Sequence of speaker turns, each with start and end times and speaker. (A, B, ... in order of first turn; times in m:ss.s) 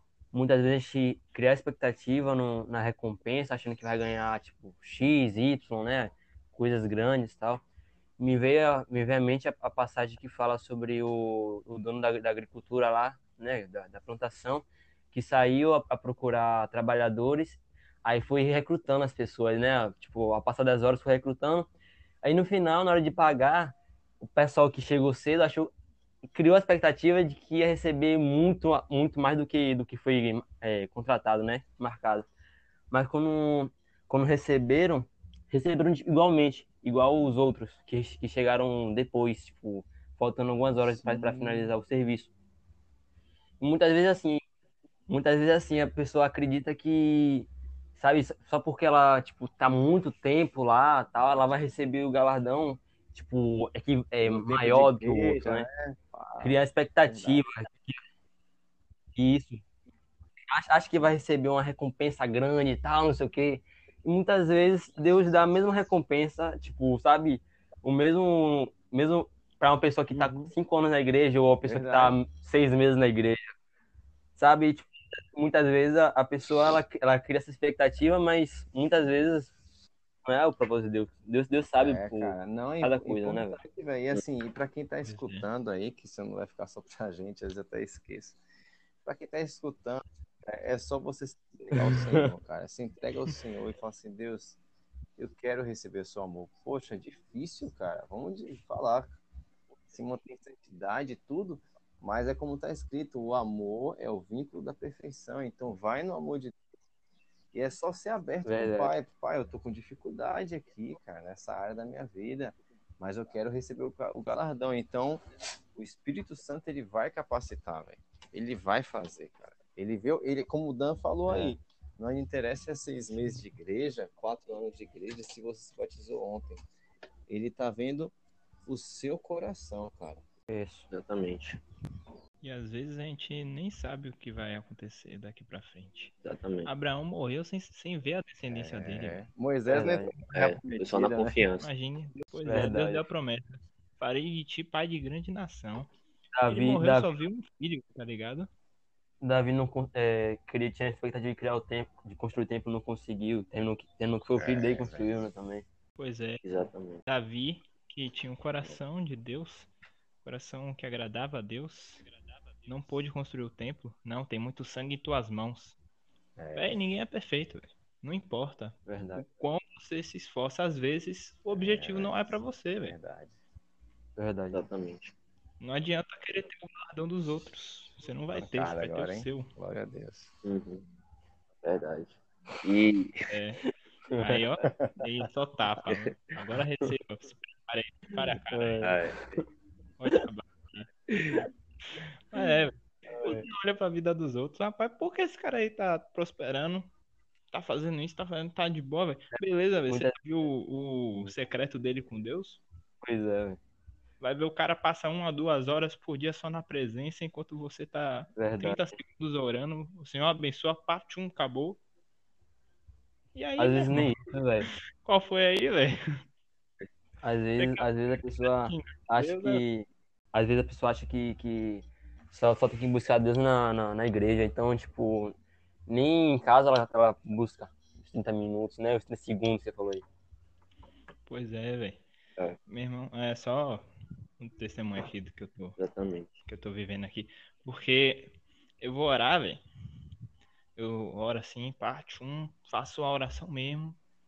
0:00.3-0:07.6 A
0:08.2-0:21.7 A
0:22.2-0:25.7 A
0:26.3-0:32.3 A
0:32.9-0:42.3 A
0:40.9-0:41.7 B
0:43.6-0:44.4 A
0:45.1-0:55.7 A
0:54.2-0:57.4 B
0:56.4-0:58.0 A
0:59.2-0:59.6 A
1:00.5-1:13.4 A
1:10.1-1:10.5 B
1:11.6-1:12.2 B
1:14.4-1:19.5 A
1:20.2-1:23.6 A
1:21.8-1:28.4 B
1:25.0-1:25.5 C
1:29.0-1:34.6 B
1:31.8-1:32.3 A
1:35.2-1:39.2 B
1:39.9-1:46.6 B
1:47.5-1:55.2 B
1:48.4-1:48.9 A
1:55.8-2:06.6 B
2:01.3-2:01.6 A
2:07.3-2:08.1 B
2:08.6-2:10.2 B
2:10.5-2:10.9 A
2:10.9-2:11.6 D
2:12.4-2:16.1 C
2:16.2-2:16.7 D
2:16.6-2:19.2 C
2:18.5-2:21.4 B
2:19.7-2:20.1 A
2:20.3-2:21.7 D
2:21.6-2:25.9 C
2:22.4-2:23.1 A
2:26.4-2:27.1 A
2:26.5-2:28.5 C
2:29.2-2:35.6 A
2:34.4-2:35.3 B
2:36.0-2:36.4 C
2:36.4-2:37.0 D
2:37.1-2:39.7 C
2:40.2-2:42.0 C
2:42.6-2:45.8 C
2:46.4-2:46.8 B
2:46.6-2:53.0 C
2:48.9-2:49.2 A
2:51.5-2:53.4 B
2:54.2-2:54.6 A
2:54.5-2:55.1 D
2:55.6-2:59.5 C
2:58.4-3:00.3 B
3:00.4-3:00.9 D
3:01.6-3:03.2 D
3:03.3-3:03.6 C
3:04.1-3:04.4 A
3:04.2-3:08.9 C
3:08.5-3:09.4 A
3:08.8-3:09.3 D
3:10.0-3:10.9 C
3:12.0-3:16.9 C
3:13.1-3:13.4 A
3:17.5-3:22.6 C
3:19.3-3:20.2 A
3:23.0-3:23.6 A
3:24.2-3:31.8 C
3:28.4-3:29.0 A
3:33.4-3:36.0 C
3:33.6-3:34.7 A
3:37.2-3:45.4 A
3:37.6-3:39.6 C
3:45.9-3:50.0 A
3:51.3-3:52.0 C
3:52.7-3:53.9 C
3:54.4-3:55.8 C
3:55.8-3:56.3 D
3:56.5-3:59.6 C
4:00.8-4:04.0 C